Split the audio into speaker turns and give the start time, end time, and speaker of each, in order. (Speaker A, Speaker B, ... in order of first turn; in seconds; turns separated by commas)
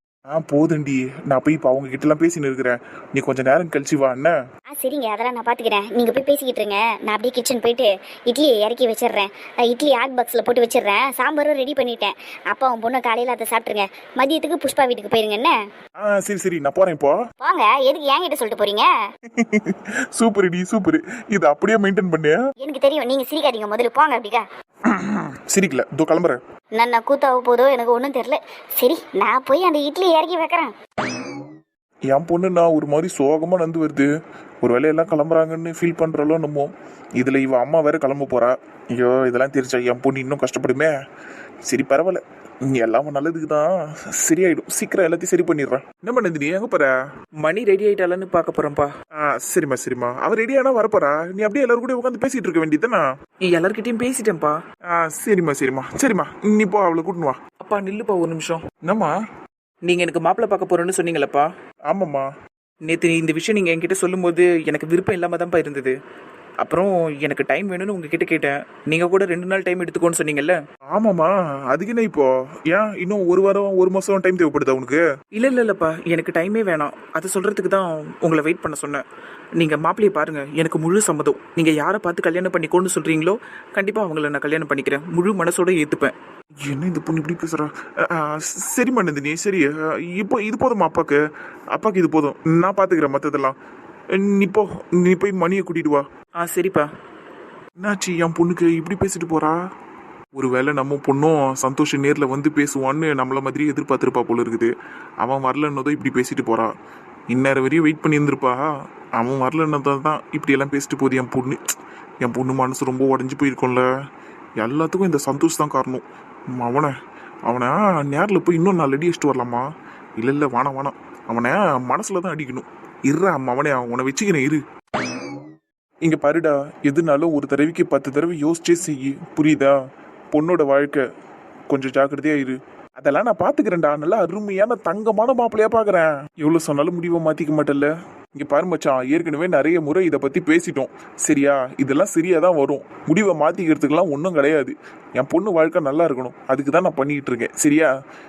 Speaker A: 0.3-4.3, Speaker B: 4.7-15.6, Speaker A: 16.0-17.2, Speaker B: 17.4-18.9, Speaker A: 19.3-22.4, Speaker B: 22.6-24.5, Speaker A: 24.9-26.4, Speaker B: 26.7-30.7, Speaker A: 32.1-34.1, Speaker A: 34.6-40.9, Speaker A: 41.6-46.9, Speaker C: 47.4-48.9, Speaker A: 49.1-53.1, Speaker C: 53.4-54.6, Speaker A: 54.9-57.4, Speaker C: 57.6-58.7, Speaker A: 58.8-59.1, Speaker C: 59.9-61.5, Speaker A: 61.9-62.3, Speaker C: 62.9-66.0, Speaker C: 66.6-70.6, Speaker A: 70.9-75.0, Speaker C: 75.3-79.0, Speaker C: 79.6-86.1, Speaker A: 86.6-91.2, Speaker A: 91.7-93.6, Speaker A: 94.1-96.1, Speaker C: 96.4-96.9, Speaker A: 97.8-99.6, Speaker A: 100.3-106.7, Speaker A: 107.3-113.9, Speaker A: 114.6-116.9, Speaker A: 117.5-124.6, Speaker A: 126.0-129.8, Speaker A: 130.3-131.1, Speaker A: 131.7-147.9